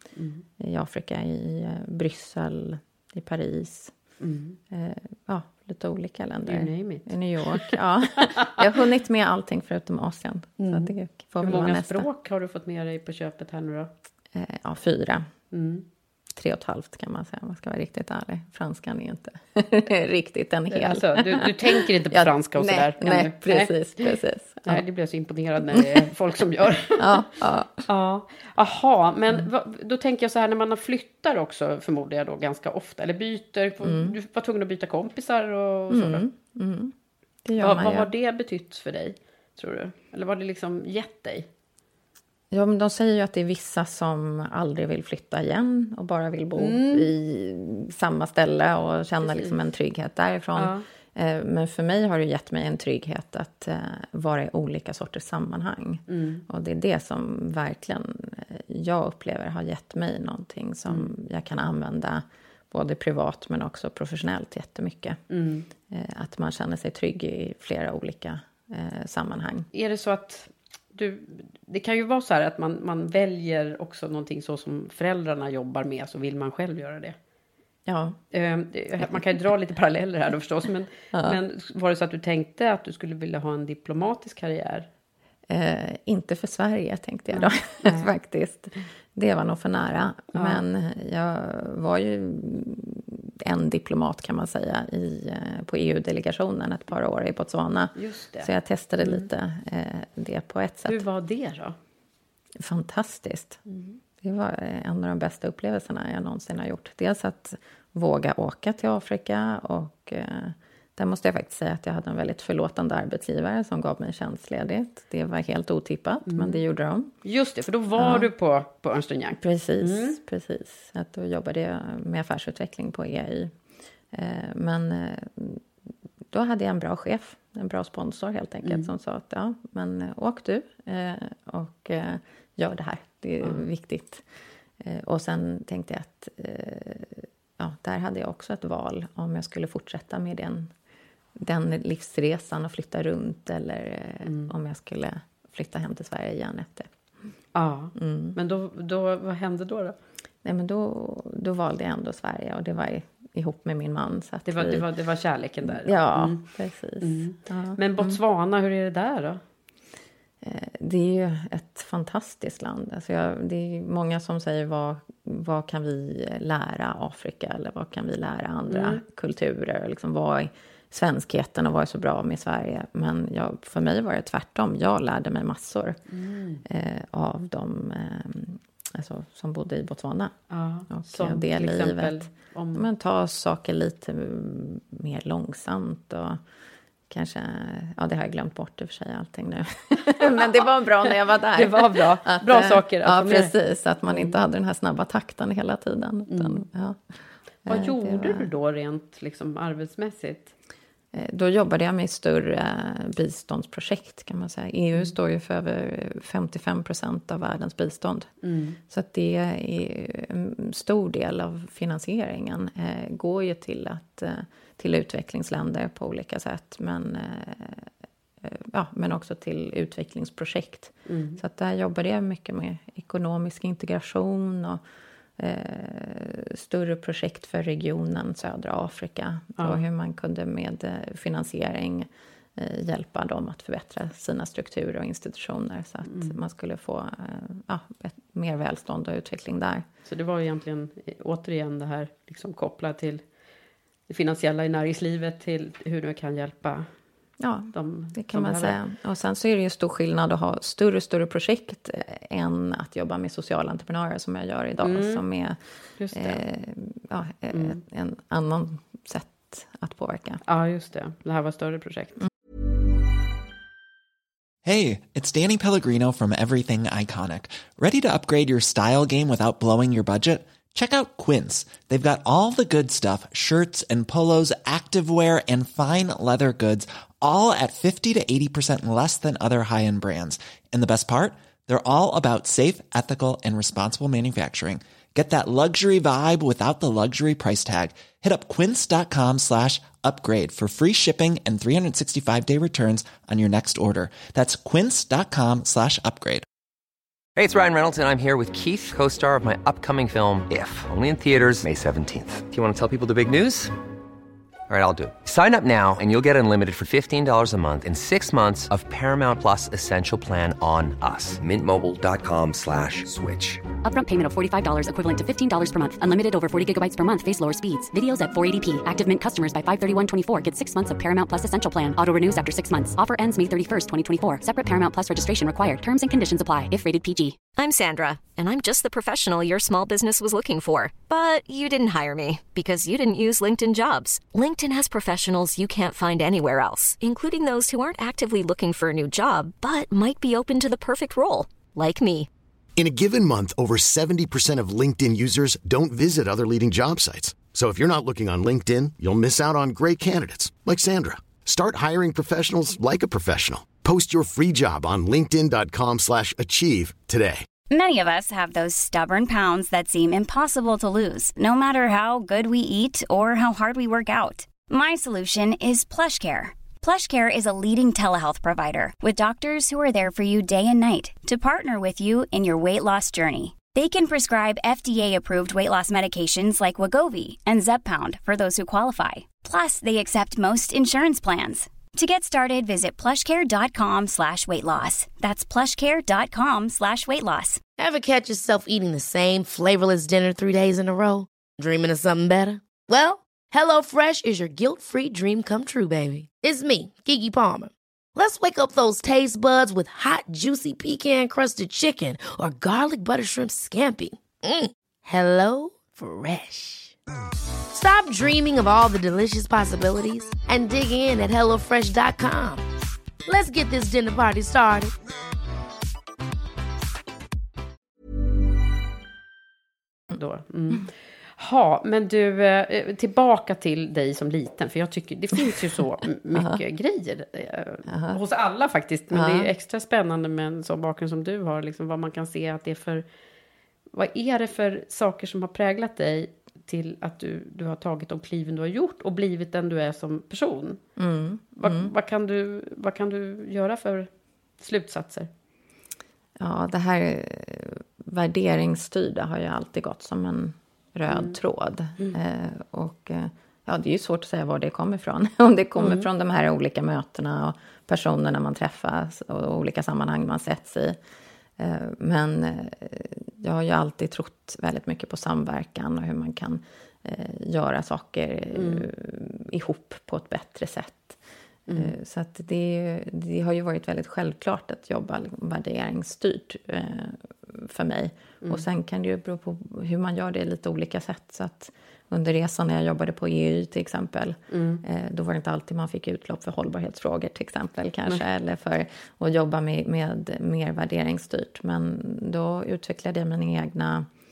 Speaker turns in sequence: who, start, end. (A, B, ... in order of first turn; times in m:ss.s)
0:00.2-0:00.4 A
0:00.6-0:03.9 B
0:04.2-0:04.6 A
0:04.7-0:12.1 B
0:06.5-0:08.6 A
0:10.6-0:13.9 A
0:14.3-0:15.3 B
0:15.5-0:15.8 A
0:16.3-0:24.8 B
0:20.7-0:27.2 A
0:25.6-0:26.1 B
0:27.0-0:27.9 B
0:27.9-0:36.2 A
0:33.8-0:34.2 B
0:35.9-0:36.9 B
0:37.4-0:38.1 B
0:37.6-0:41.5 A
0:42.5-1:05.2 B
0:46.6-0:47.1 A
0:49.2-0:49.5 A
0:50.5-0:50.8 A
0:56.1-0:56.4 A
1:00.9-1:01.1 A
1:05.3-1:05.7 A
1:05.9-1:09.7 B
1:09.7-1:17.2 A
1:17.9-1:18.2 B
1:18.3-1:24.9 A
1:19.0-1:19.2 B
1:21.1-1:21.4 B
1:25.5-1:41.0 B
1:27.3-1:28.1 A
1:30.3-1:30.6 A
1:38.0-1:38.5 A
1:40.8-1:41.8 A
1:42.6-1:43.6 B
1:43.7-1:44.0 A
1:44.2-1:57.1 B
1:56.3-1:56.6 A
1:57.2-2:00.2 A
1:58.0-1:58.3 B
1:59.4-2:03.5 B
2:04.1-2:05.6 B
2:06.3-2:14.2 B
2:08.6-2:08.9 A
2:14.8-2:20.7 B
2:21.4-2:26.9 B
2:24.2-2:24.5 A
2:27.5-2:30.0 A
2:28.0-2:28.4 B
2:30.4-2:34.8 B
2:34.4-2:36.4 A
2:35.6-2:38.2 B
2:37.0-2:39.4 A
2:40.4-2:56.0 B
2:48.7-2:49.0 A
2:56.1-2:56.6 A
2:56.6-3:00.3 B
3:00.5-3:02.8 A
3:00.9-3:06.4 B
3:07.1-3:17.0 B
3:11.6-3:13.5 A
3:14.1-3:14.3 A
3:16.3-3:16.6 A
3:17.6-3:18.5 B
3:17.6-3:20.5 A
3:21.1-3:28.3 B
3:28.4-3:28.8 A
3:28.9-3:37.9 B
3:38.4-3:44.8 B
3:41.1-3:41.4 A
3:45.4-3:59.8 B
3:49.6-3:49.8 A
3:56.1-3:56.4 A
4:00.0-4:03.2 A
4:04.1-4:06.9 A
4:07.4-4:15.6 B
4:07.7-4:08.8 A
4:14.8-4:15.2 A
4:16.0-4:16.4 A
4:16.1-4:20.4 B
4:17.5-4:17.8 A
4:20.5-4:22.2 A
4:24.6-4:56.4 C
4:57.4-5:03.7 D
5:04.7-5:13.6 D
5:13.8-5:27.4 E
5:27.5-5:42.3 F
5:42.8-5:57.5 G
5:57.7-6:27.6 H
6:27.8-6:46.9 I
6:47.7-6:52.6 I
6:53.2-6:54.9 I
7:00.1-7:13.0 A
7:06.3-7:06.6 B
7:07.9-7:08.2 B
7:09.1-7:09.5 B
7:13.9-7:20.8 A
7:21.0-7:21.9 B
7:21.6-7:25.3 A
7:26.4-7:41.0 B
7:31.1-7:31.4 A
7:35.8-7:36.1 A
7:41.6-8:14.1 B
7:48.5-7:48.9 A
7:51.7-7:51.9 A
8:04.5-8:04.8 A